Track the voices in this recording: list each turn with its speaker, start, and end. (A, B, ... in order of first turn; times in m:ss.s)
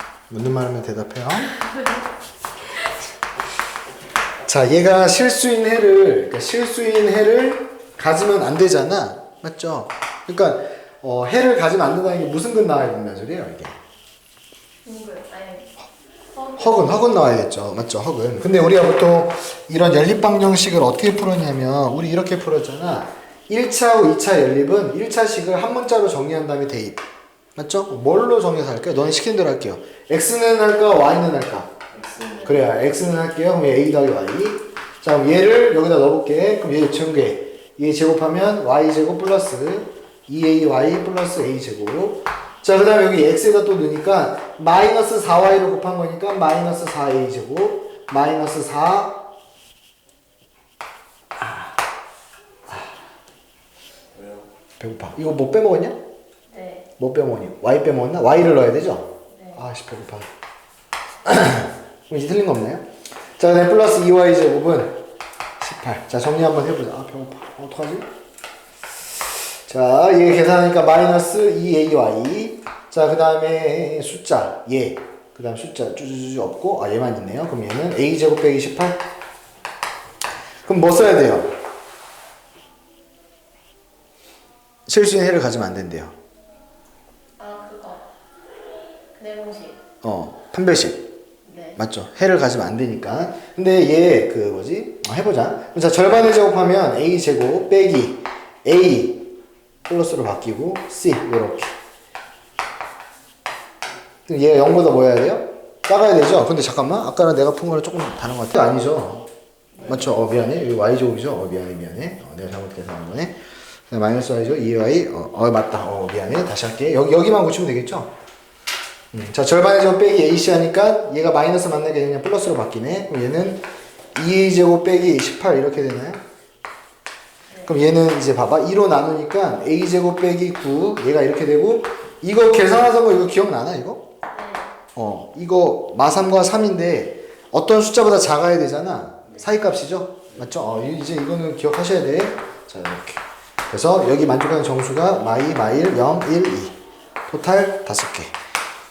0:00.3-0:01.5 A
0:04.4-0:13.8 A
0:14.8-0:15.7 B
0:16.3-0:17.0 B
0:16.6-0:27.0 A
0:27.6-0:31.8 A
0:32.0-0:32.6 B
0:32.4-0:49.2 A
0:51.4-0:51.7 A
0:54.8-0:56.0 A
0:56.5-0:56.9 B
0:57.0-1:00.3 A
0:59.3-0:59.6 B
1:01.2-1:05.0 A
1:05.6-1:08.1 A
1:09.7-1:19.0 A
1:20.6-1:21.5 A
1:24.8-1:26.1 A
1:27.4-1:28.1 B
1:29.2-1:29.8 B
1:30.0-1:31.1 A
1:31.4-1:31.8 B
1:31.8-1:39.3 A
1:39.9-1:41.7 A
1:44.3-1:49.3 A
1:49.7-1:50.2 B
1:49.8-1:53.4 A
1:53.9-1:58.1 A
1:59.1-2:03.6 A
2:04.1-2:06.2 A
2:07.6-2:14.1 A
2:14.3-2:14.7 B
2:14.9-2:26.8 A
2:27.3-2:28.3 A